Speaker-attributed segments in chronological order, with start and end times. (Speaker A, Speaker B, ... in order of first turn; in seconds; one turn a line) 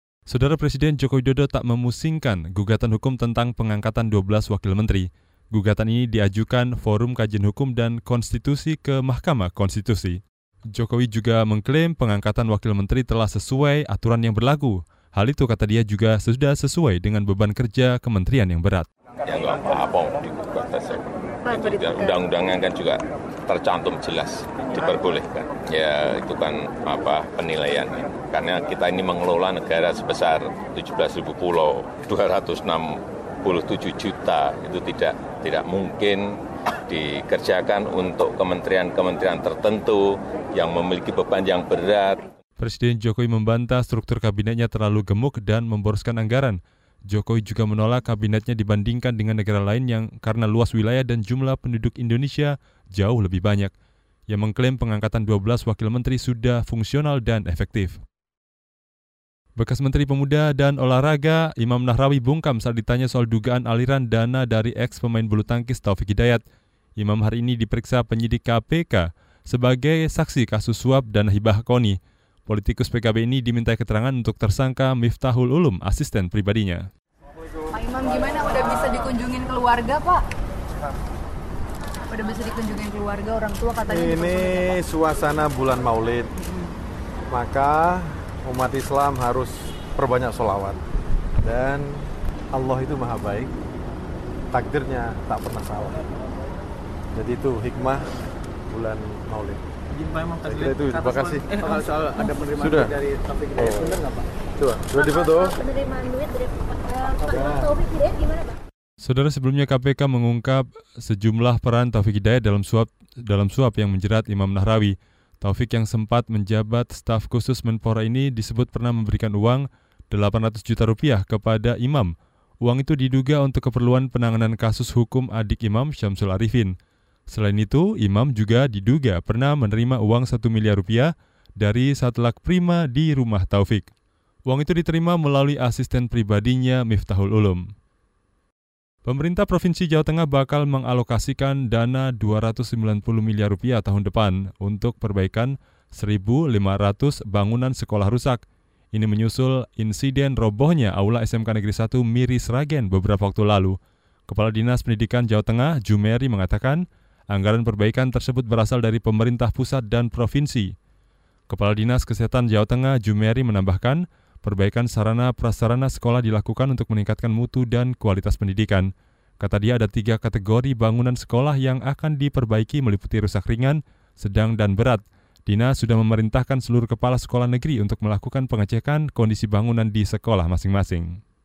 Speaker A: 0.3-10.2
Speaker A: 10.7-18.9
Speaker B: 19.3-42.3
Speaker C: 21.5-22.2
Speaker A: 42.6-46.6
Speaker A: 47.1-53.7
Speaker A: 54.3-58.0
Speaker A: 59.6-66.4
Speaker A: 67.0-76.9
Speaker D: 77.7-80.2
Speaker D: 82.1-84.5
Speaker E: 83.8-86.3
Speaker E: 87.3-90.8
Speaker E: 91.4-93.5
Speaker E: 94.5-96.1
Speaker E: 97.1-98.1
Speaker E: 98.7-99.6
Speaker F: 100.0-104.3
Speaker E: 100.4-101.8
Speaker E: 102.6-103.0
Speaker E: 103.6-104.0
Speaker E: 104.6-105.6
Speaker C: 105.0-108.6
Speaker E: 107.2-107.7
Speaker A: 109.0-122.1
Speaker A: 122.6-126.7
Speaker A: 127.3-133.9
Speaker A: 134.5-137.6
Speaker A: 139.0-148.4
Speaker A: 148.9-153.8
Speaker A: 154.3-160.7
Speaker A: 161.5-168.9
Speaker A: 169.4-181.2